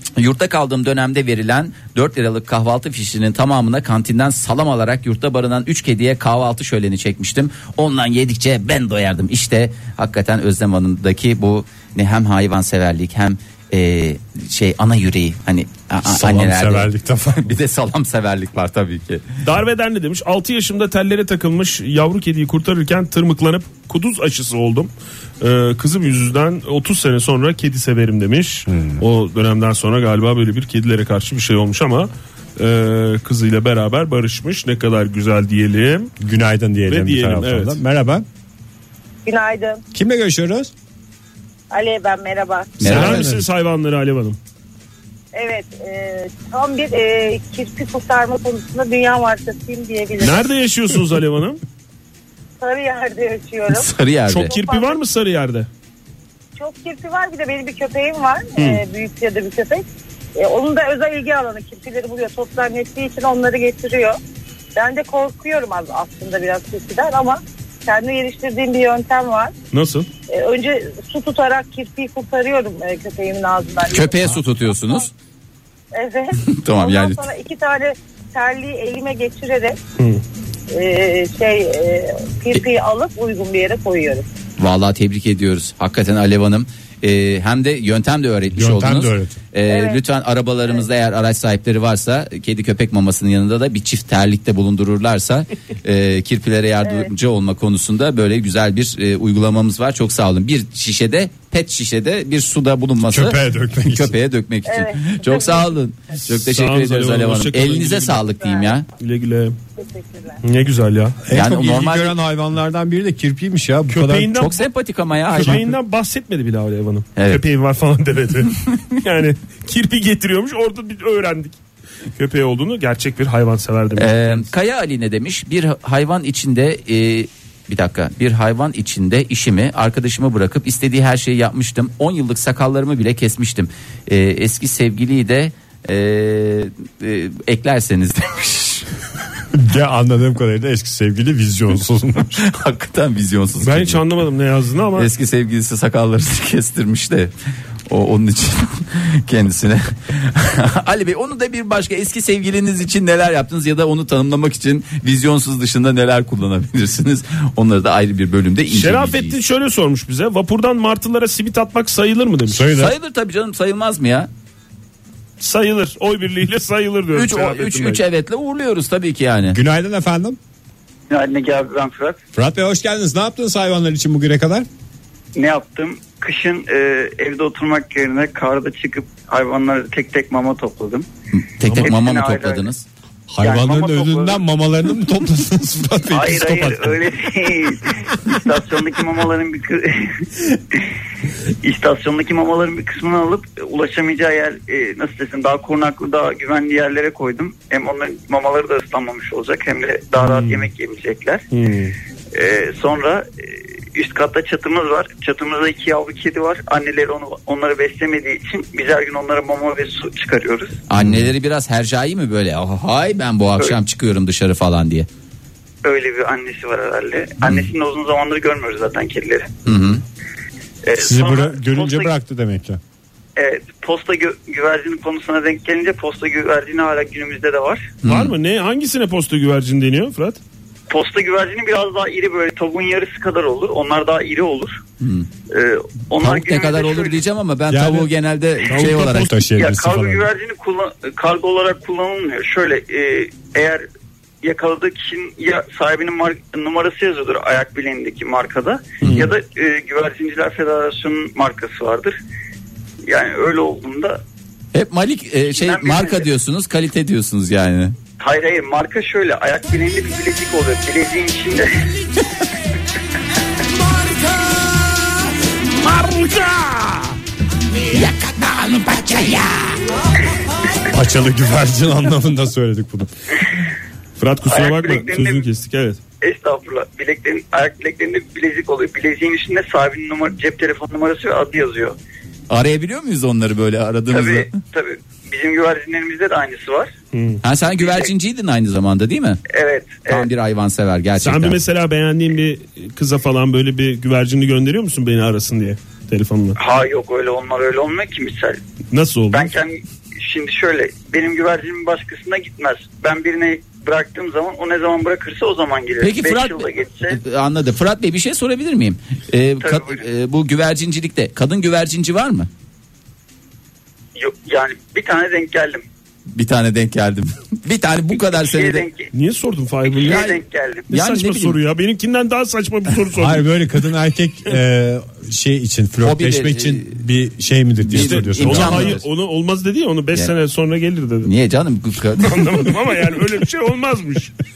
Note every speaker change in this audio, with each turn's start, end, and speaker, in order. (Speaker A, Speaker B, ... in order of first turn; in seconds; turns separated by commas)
Speaker A: 0.2-19.3, Speaker B: 16.0-17.6, Speaker C: 19.4-36.1, Speaker B: 28.7-29.0, Speaker B: 36.2-38.2, Speaker C: 36.9-37.8, Speaker D: 39.2-39.8, Speaker B: 39.9-40.7, Speaker D: 41.7-42.9, Speaker A: 42.8-43.3, Speaker C: 42.8-44.4, Speaker B: 42.9-43.5, Speaker D: 45.3-50.5, Speaker C: 50.2-51.6, Speaker D: 52.6-53.9, Speaker A: 53.7-54.5, Speaker C: 54.3-55.7, Speaker D: 54.5-55.0, Speaker D: 56.6-59.8, Speaker D: 60.4-64.2, Speaker D: 64.8-69.5, Speaker C: 69.7-70.1, Speaker D: 70.3-75.0, Speaker A: 73.9-75.1, Speaker D: 75.9-79.8, Speaker A: 76.5-77.2, Speaker D: 80.7-84.3, Speaker A: 84.6-108.9, Speaker B: 88.5-89.4, Speaker D: 89.7-90.0, Speaker D: 96.8-97.1, Speaker B: 103.0-104.2, Speaker D: 104.7-105.7, Speaker C: 106.3-108.3, Speaker D: 108.4-108.7, Speaker C: 109.0-109.6, Speaker D: 109.8-110.4, Speaker C: 110.4-111.2, Speaker B: 111.3-114.3, Speaker A: 111.3-112.1, Speaker C: 113.9-114.7, Speaker A: 114.3-115.7, Speaker C: 115.3-121.6, Speaker A: 117.2-117.4, Speaker C: 122.2-124.5, Speaker A: 124.0-138.9, Speaker B: 139.5-142.5, Speaker A: 142.4-144.0, Speaker C: 143.6-145.1, Speaker A: 144.9-147.3, Speaker A: 147.9-159.4, Speaker C: 158.7-162.6, Speaker B: 162.5-162.9, Speaker A: 162.7-164.3, Speaker C: 165.4-168.0, Speaker A: 167.1-169.6, Speaker B: 169.5-170.4, Speaker E: 171.1-172.2, Speaker B: 172.4-174.7, Speaker E: 175.4-181.1, Speaker A: 181.3-182.8, Speaker C: 181.7-181.9, Speaker E: 181.7-182.7, Speaker B: 183.3-187.2, Speaker E: 183.4-184.4, Speaker E: 186.1-190.8, Speaker E: 191.6-201.4, Speaker C: 200.2-200.7, Speaker C: 201.5-201.9, Speaker E: 202.3-210.8, Speaker A: 210.9-215.1, Speaker B: 211.0-211.3, Speaker E: 215.8-219.5, Speaker A: 219.7-220.0, Speaker E: 220.9-222.1, Speaker B: 221.0-222.8, Speaker E: 223.4-228.0, Speaker A: 228.0-228.3, Speaker C: 228.1-230.4, Speaker E: 230.9-234.8, Speaker A: 235.0-235.3, Speaker E: 235.5-237.2, Speaker A: 236.2-239.3, Speaker B: 237.7-238.1, Speaker C: 238.7-239.3, Speaker B: 238.9-240.3, Speaker E: 239.5-243.8, Speaker E: 244.4-252.2, Speaker C: 249.0-249.3, Speaker E: 253.1-254.2, Speaker A: 254.7-258.0, Speaker E: 255.5-256.3, Speaker E: 258.2-261.7, Speaker B: 265.8-267.1, Speaker A: 267.9-269.8, Speaker B: 270.9-273.1, Speaker C: 274.2-276.0, Speaker E: 274.5-275.4, Speaker E: 276.2-282.0, Speaker A: 282.5-284.6, Speaker E: 284.1-286.9, Speaker C: 287.1-287.4, Speaker A: 287.4-289.4, Speaker E: 287.8-288.1, Speaker E: 289.5-290.3, Speaker A: 290.1-291.6, Speaker C: 291.2-296.6, Speaker E: 296.6-298.6, Speaker C: 298.9-299.5, Speaker E: 299.3-307.2, Speaker A: 306.0-312.5, Speaker E: 309.6-310.1, Speaker E: 314.2-315.8, Speaker A: 316.3-318.9, Speaker E: 318.4-319.1, Speaker C: 319.1-320.3, Speaker E: 319.9-320.9, Speaker A: 320.1-320.4, Speaker C: 320.9-323.4, Speaker A: 320.9-321.6, Speaker B: 323.1-329.0, Speaker A: 326.0-326.9, Speaker A: 327.9-329.0, Speaker C: 327.9-331.3, Speaker A: 331.2-332.7, Speaker C: 332.2-334.4